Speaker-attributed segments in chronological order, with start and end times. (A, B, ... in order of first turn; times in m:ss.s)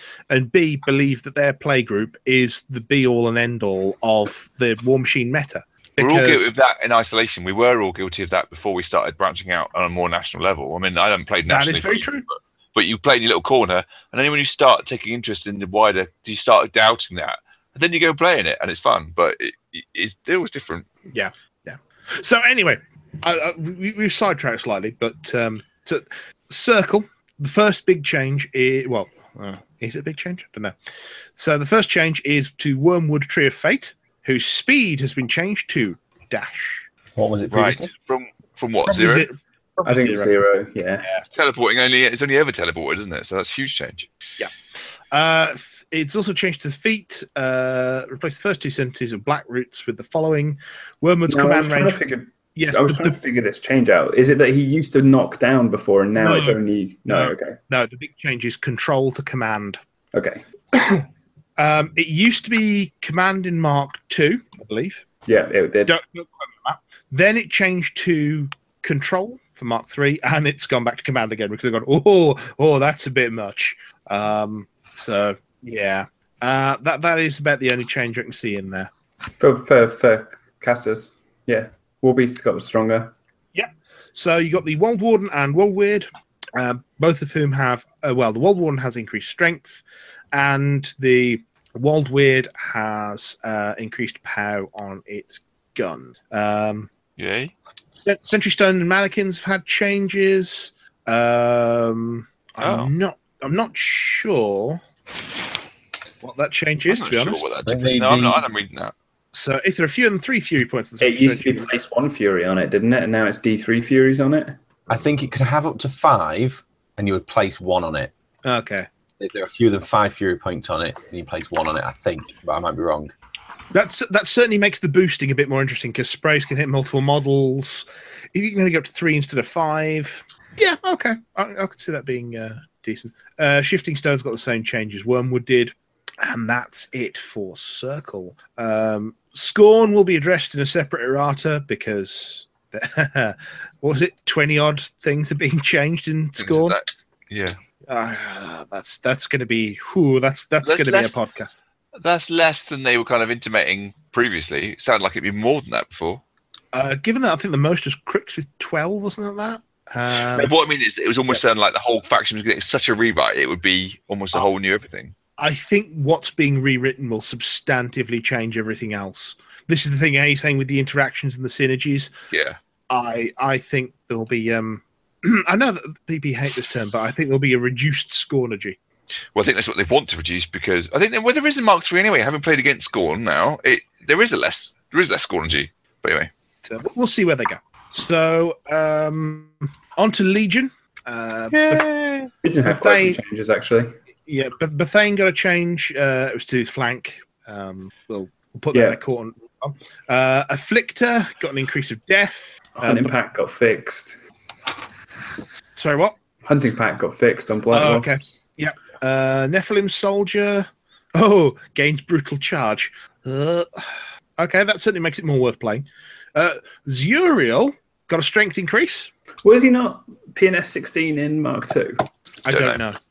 0:00.3-0:06.5 A
0:06.0-0:20.9 B
0:11.5-0:12.2 A
0:21.1-0:30.8 A
0:31.4-0:36.9 A
0:37.2-0:37.9 C
0:37.5-0:39.3 B
0:38.9-0:40.4 A
0:39.8-0:41.1 D
0:41.3-0:44.1 B
0:44.4-0:52.0 A
0:51.3-0:57.6 D
0:52.6-0:53.2 A
0:56.2-0:59.8 A
1:00.1-1:00.4 D
1:00.7-1:01.0 A
1:01.6-1:05.0 A
1:05.3-1:06.0 D
1:05.9-1:18.9 A
1:19.4-1:23.1 D
1:23.5-1:36.9 A
1:37.2-1:37.5 B
1:38.0-1:44.8 A
1:42.6-1:42.9 B
1:46.2-1:47.5 A
1:46.9-1:48.9 B
1:47.7-1:48.4 C
1:49.3-1:51.7 A
1:51.0-1:54.6 D
1:54.9-1:58.1 C
1:58.4-1:58.9 A
1:59.2-2:03.1 C
2:03.7-2:26.8 A
2:26.4-2:27.6 B
2:27.9-2:31.6 A
2:30.6-2:31.2 B
2:32.0-2:36.2 B
2:36.7-2:40.5 A
2:40.3-2:45.2 B
2:45.4-2:52.1 A
2:52.3-2:52.6 B
2:52.9-2:58.8 A
2:59.4-3:06.3 B
3:06.6-3:11.9 A
3:11.5-3:12.3 B
3:12.4-3:13.9 D
3:12.7-3:13.2 A
3:14.3-3:23.1 A
3:18.7-3:19.0 D
3:22.8-3:24.2 D
3:25.8-3:26.2 A
3:26.4-3:28.3 D
3:27.7-3:39.1 A
3:39.4-3:42.1 D
3:42.4-3:43.0 A
3:42.5-3:42.8 B